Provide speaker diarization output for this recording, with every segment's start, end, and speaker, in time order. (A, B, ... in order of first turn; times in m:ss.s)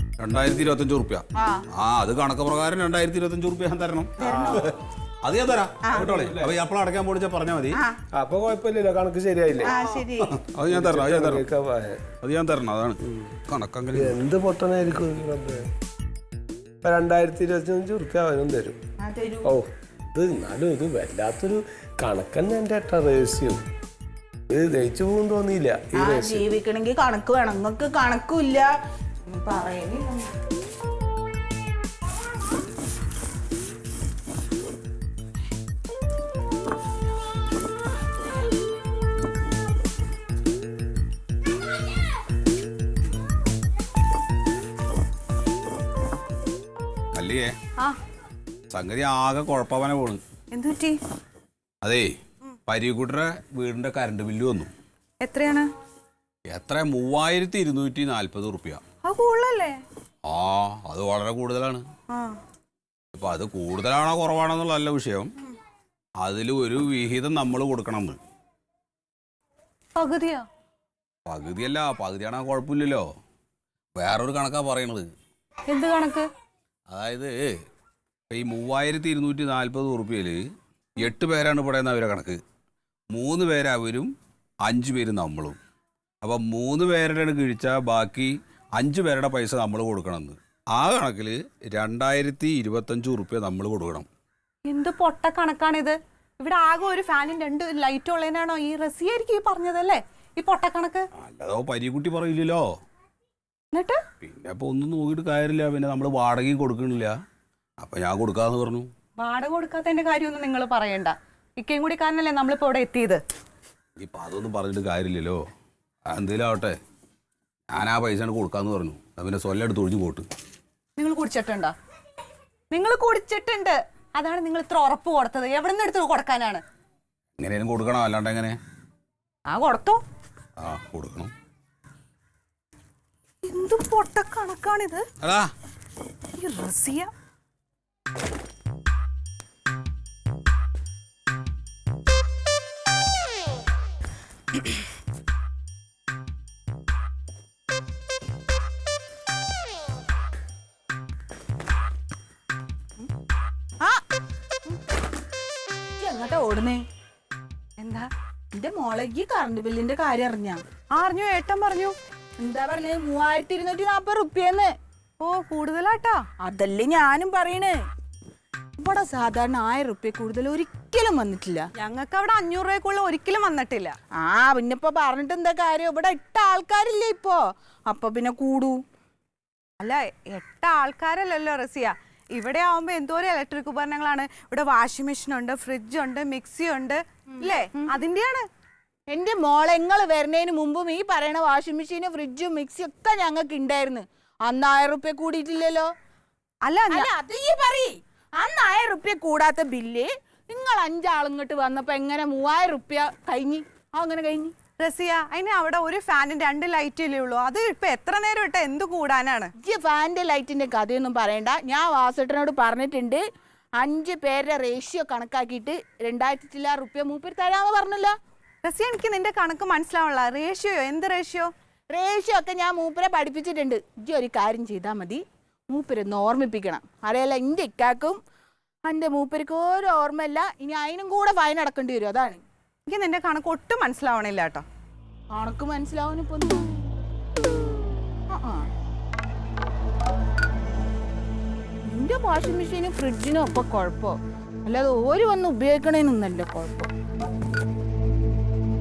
0:00.2-0:07.8 A
0:01.4-0:01.6 B
0:04.2-0:04.7 B
0:04.2-0:04.8 C
0:05.9-0:06.5 C
0:08.1-0:09.8 C
0:09.6-0:10.4 B
0:10.3-0:11.4 A
0:10.7-0:12.0 C
0:12.2-0:14.1 A
0:13.0-0:13.3 C
0:13.9-0:15.7 C
0:16.8-0:18.8 C
0:19.0-0:19.5 B
0:19.4-0:23.6 C
0:24.5-0:26.4 C
0:26.0-0:28.7 B
0:29.2-0:30.3 B
0:47.1-0:47.5 A
0:48.7-0:50.2 A
0:50.5-0:51.0 D
0:51.8-0:52.1 A
0:52.7-0:54.7 A
0:55.2-0:55.7 D
0:56.5-0:58.8 A
0:59.0-0:59.8 D
1:00.2-1:01.8 A
1:03.1-1:05.3 A
1:06.2-1:08.2 A
1:10.0-1:10.4 D
1:11.2-1:13.0 A
1:14.0-1:15.1 A
1:15.7-1:16.2 D
1:16.9-1:17.5 A
1:18.3-1:20.4 A
1:21.0-1:22.4 A
1:23.1-1:24.1 A
1:24.6-1:25.6 A
1:26.2-1:34.1 A
1:34.6-1:41.1 D
1:41.1-1:42.6 A
1:43.7-1:44.0 D
1:44.2-1:47.1 A
1:47.8-1:48.9 A
1:49.2-1:53.2 D
1:54.0-1:55.4 A
1:56.1-1:56.8 A
1:57.7-2:00.2 A
2:01.0-2:01.7 D
2:02.7-2:06.6 D
2:07.4-2:08.6 A
2:09.5-2:10.0 D
2:10.6-2:11.3 A
2:13.4-2:15.0 D
2:15.2-2:15.5 A
2:16.4-2:17.1 D
2:36.0-2:36.8 B
2:37.8-2:38.1 D
2:38.5-2:40.6 B
2:40.9-2:41.9 D
2:42.4-2:44.7 B
2:45.2-2:46.2 D
2:46.4-2:47.8 B
2:48.8-2:51.7 B
2:51.8-2:54.0 D
2:54.1-2:58.8 B
2:59.8-3:08.5 D
3:07.4-3:07.9 B
3:09.1-3:15.9 B
3:16.6-3:17.1 D
3:16.9-3:24.5 B
3:24.8-3:29.5 D
3:29.6-3:33.2 B
3:33.8-3:38.1 B
3:38.6-3:41.5 D
3:41.9-3:48.2 B
3:48.8-3:52.4 B
3:52.9-3:54.6 D
3:55.3-3:56.8 B
3:58.3-3:58.7 B
4:01.8-4:06.9 B